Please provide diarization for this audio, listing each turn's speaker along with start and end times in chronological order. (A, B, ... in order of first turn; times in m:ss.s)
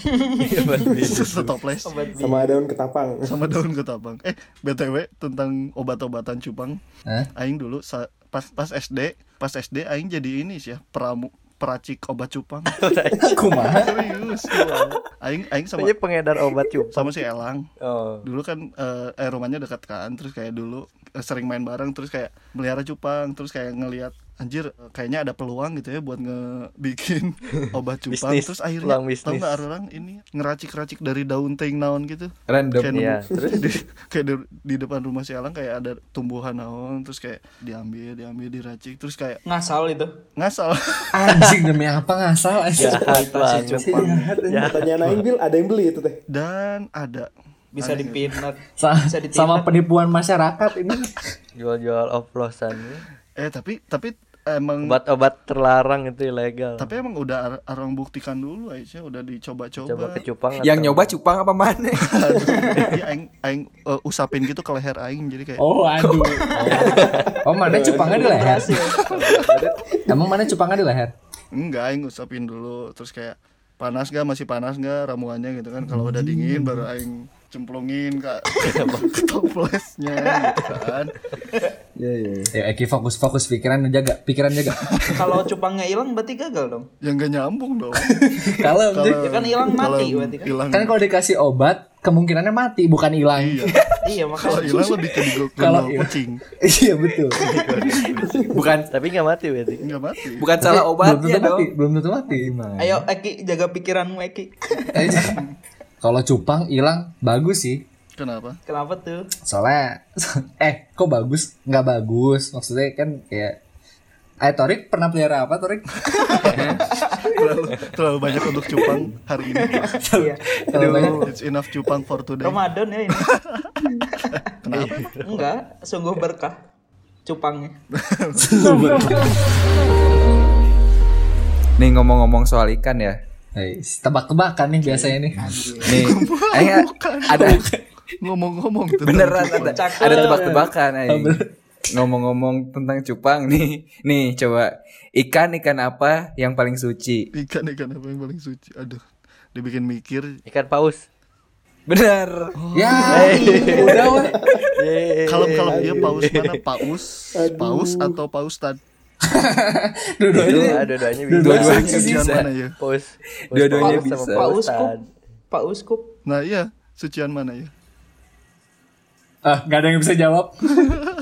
0:00.1-0:00.6 A
0:00.4-0:01.6 B
0:00.8-0:02.0 C
0:00.8-0:01.1 D
0:01.8-0:02.6 A
0:02.2-0:03.4 D
0:03.3-0:06.8 C
0:07.4-0:12.9 C
0:12.7-0:13.8 B
0:13.2-0:14.1 E
0:13.7-0:17.7 C
0:14.4-0:15.0 B
0:15.7-0:17.2 B
0:17.8-0:18.3 B
0:18.2-0:39.4 C
0:28.1-0:29.7 B
0:32.5-0:33.0 F
0:32.9-0:33.7 B
0:39.5-0:40.1 A
0:40.4-0:41.3 C
0:41.2-0:45.2 E
0:42.8-0:45.2 B
0:42.8-0:44.3 A
0:43.1-0:44.3 C
0:44.7-0:46.2 D
0:46.3-0:48.4 C
0:47.8-0:49.7 A
0:48.8-0:51.2 E
0:51.6-0:53.0 B
0:53.4-0:55.0 C
0:54.8-0:56.9 B
0:56.8-1:00.3 C
0:59.8-1:01.2 B
1:00.6-1:02.1 F
1:02.0-1:05.6 C
1:02.6-1:02.9 A
1:05.6-1:08.7 E
1:06.6-1:07.0 A
1:06.9-1:07.3 B
1:07.7-1:08.2 D
1:07.9-1:09.0 A
1:09.0-1:09.8 B
1:09.1-1:09.6 C
1:10.1-1:11.1 E
1:11.5-1:21.2 C
1:15.9-1:16.8 E
1:18.6-1:19.1 B
1:20.4-1:20.6 A
1:22.0-1:22.5 F
1:22.5-1:24.8 E
1:25.0-1:25.2 C
1:25.2-1:26.9 A
1:27.0-1:28.1 C
1:28.2-1:29.2 E
1:28.8-1:31.0 C
1:29.2-1:30.5 A
1:30.7-1:33.7 E
1:33.4-1:33.8 C
1:34.0-1:34.9 A
1:34.4-1:36.4 C
1:35.6-1:36.1 E
1:36.6-1:37.4 E
1:37.4-1:38.5 C
1:37.4-1:38.0 B
1:38.2-1:38.9 F
1:38.9-1:39.8 B
1:39.8-1:40.5 C
1:40.4-1:41.7 F
1:40.6-1:42.5 E
1:42.3-1:43.0 F
1:42.8-1:45.1 A
1:44.9-1:45.4 E
1:46.0-1:47.8 E
1:48.2-1:48.6 C
1:48.7-1:49.3 A
1:49.5-1:53.6 E
1:54.4-1:56.6 E
1:56.4-2:00.0 C
1:56.5-1:56.8 F
1:59.6-2:01.2 A
2:00.1-2:01.2 E
2:00.8-2:01.3 B
2:01.2-2:02.6 C
2:02.4-2:03.3 A
2:03.2-2:03.7 C
2:03.9-2:04.3 A
2:04.3-2:05.4 C
2:04.7-2:05.5 B
2:05.2-2:06.6 A
2:07.2-2:07.7 A
2:07.9-2:08.5 C
2:08.4-2:09.3 E
2:11.8-2:13.2 F
2:13.6-2:15.6 E
2:15.5-2:17.6 C
2:15.5-2:17.7 F
2:17.3-2:17.8 E
2:18.2-2:19.8 C
2:19.0-2:21.4 F
2:19.6-2:20.4 A
2:20.0-2:21.5 E
2:22.0-2:27.2 F
2:27.4-2:29.0 C
2:29.6-2:30.3 C
2:30.5-2:31.0 B
2:31.9-2:32.5 F
2:32.6-2:33.8 C
2:32.8-2:34.3 E
2:33.0-2:34.1 A
2:33.1-2:34.1 B
2:34.1-2:34.6 D
2:34.8-2:36.6 B
2:35.3-2:38.8 C
2:35.7-2:36.3 D
2:37.4-2:38.2 D
2:39.3-2:42.5 E
2:40.4-2:42.0 B
2:40.4-2:40.8 F
2:41.4-2:42.5 F
2:41.5-2:42.8 C
2:42.8-2:45.0 B
2:43.5-2:44.5 F
2:43.8-2:44.9 A
2:45.5-2:46.0 A
2:46.2-2:47.7 C
2:49.4-2:51.0 E